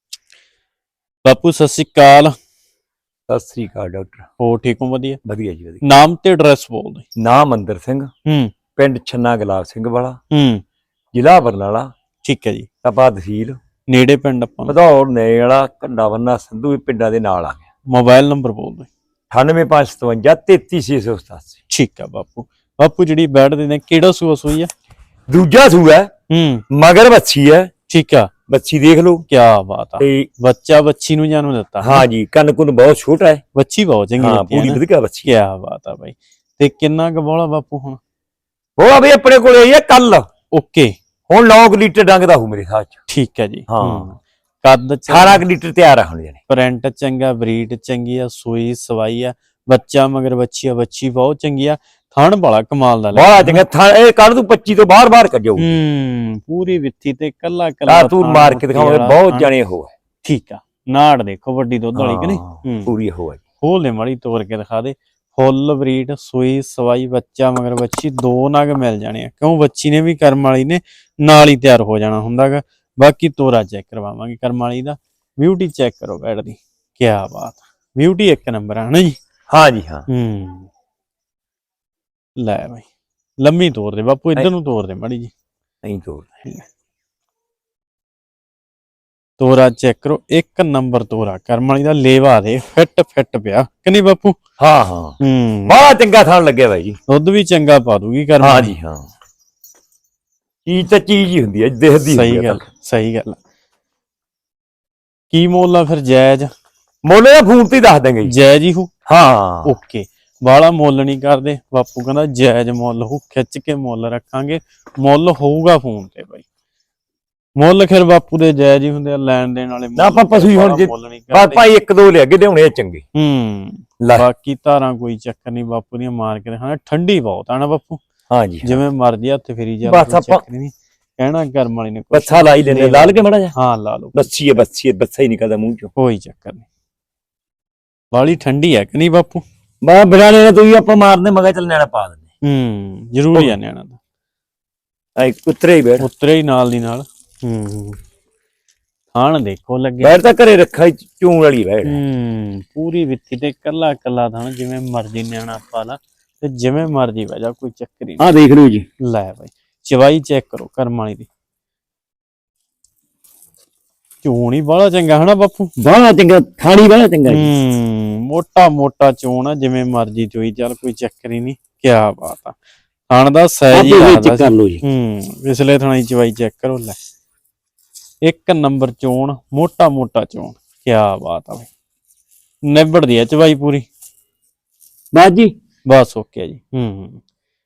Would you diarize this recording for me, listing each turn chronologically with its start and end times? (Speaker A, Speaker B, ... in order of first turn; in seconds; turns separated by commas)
Speaker A: 1.2-2.3, Speaker B: 3.3-4.3, Speaker A: 4.4-5.2, Speaker B: 5.2-5.8, Speaker A: 5.8-7.0, Speaker B: 7.2-8.1, Speaker A: 8.3-8.5, Speaker B: 8.8-10.2, Speaker A: 10.3-10.6, Speaker B: 11.1-11.9, Speaker A: 12.2-12.7, Speaker B: 12.8-13.6, Speaker A: 13.9-14.8, Speaker B: 14.7-17.6, Speaker A: 17.9-18.9, Speaker B: 19.3-21.6, Speaker A: 21.7-24.7, Speaker B: 25.3-26.1, Speaker A: 26.3-26.6, Speaker B: 26.7-27.7, Speaker A: 27.9-28.3, Speaker B: 28.5-29.2, Speaker A: 29.3-32.1, Speaker B: 30.0-30.3, Speaker B: 31.8-33.4, Speaker A: 33.5-38.0, Speaker B: 34.2-35.3, Speaker B: 38.8-40.2, Speaker A: 40.5-40.9, Speaker B: 41.3-43.0, Speaker A: 43.1-45.4, Speaker B: 43.7-44.1, Speaker B: 45.1-46.4, Speaker A: 46.5-53.6, Speaker B: 53.1-55.7, Speaker A: 55.6-59.5, Speaker B: 57.9-59.9, Speaker A: 60.2-62.9, Speaker B: 62.0-63.4, Speaker A: 63.6-79.2, Speaker B: 79.5-80.1, Speaker A: 80.1-80.7, Speaker A: 82.4-82.8, Speaker A: 83.4-85.3, Speaker B: 85.8-86.3, Speaker A: 89.4-94.4, Speaker B: 94.6-95.2, Speaker A: 95.2-95.8, Speaker B: 95.7-97.0, Speaker A: 97.1-98.7, Speaker B: 98.4-99.1, Speaker B: 100.7-102.6, Speaker A: 102.0-103.4, Speaker A: 105.3-106.5, Speaker B: 107.0-108.3, Speaker A: 108.2-108.9, Speaker B: 109.1-109.7, Speaker A: 109.7-116.5, Speaker A: 117.6-121.6, Speaker B: 120.0-123.0, Speaker A: 123.2-128.0, Speaker B: 124.0-124.3, Speaker B: 128.3-128.8, Speaker A: 128.6-134.5, Speaker B: 129.8-130.4, Speaker B: 132.1-133.5, Speaker B: 134.2-135.9, Speaker A: 136.0-136.7, Speaker A: 138.1-139.4, Speaker B: 139.8-142.2, Speaker A: 142.4-144.0, Speaker B: 145.2-146.1, Speaker A: 146.0-148.0, Speaker A: 149.1-150.2, Speaker B: 150.0-152.0, Speaker A: 151.8-158.2, Speaker B: 158.2-158.9, Speaker A: 159.0-161.3, Speaker A: 164.2-165.7, Speaker B: 165.8-167.5, Speaker A: 167.3-172.6, Speaker A: 173.1-177.0, Speaker B: 173.7-174.8, Speaker A: 178.3-181.7, Speaker A: 182.7-183.9, Speaker B: 185.1-185.5, Speaker A: 185.9-187.2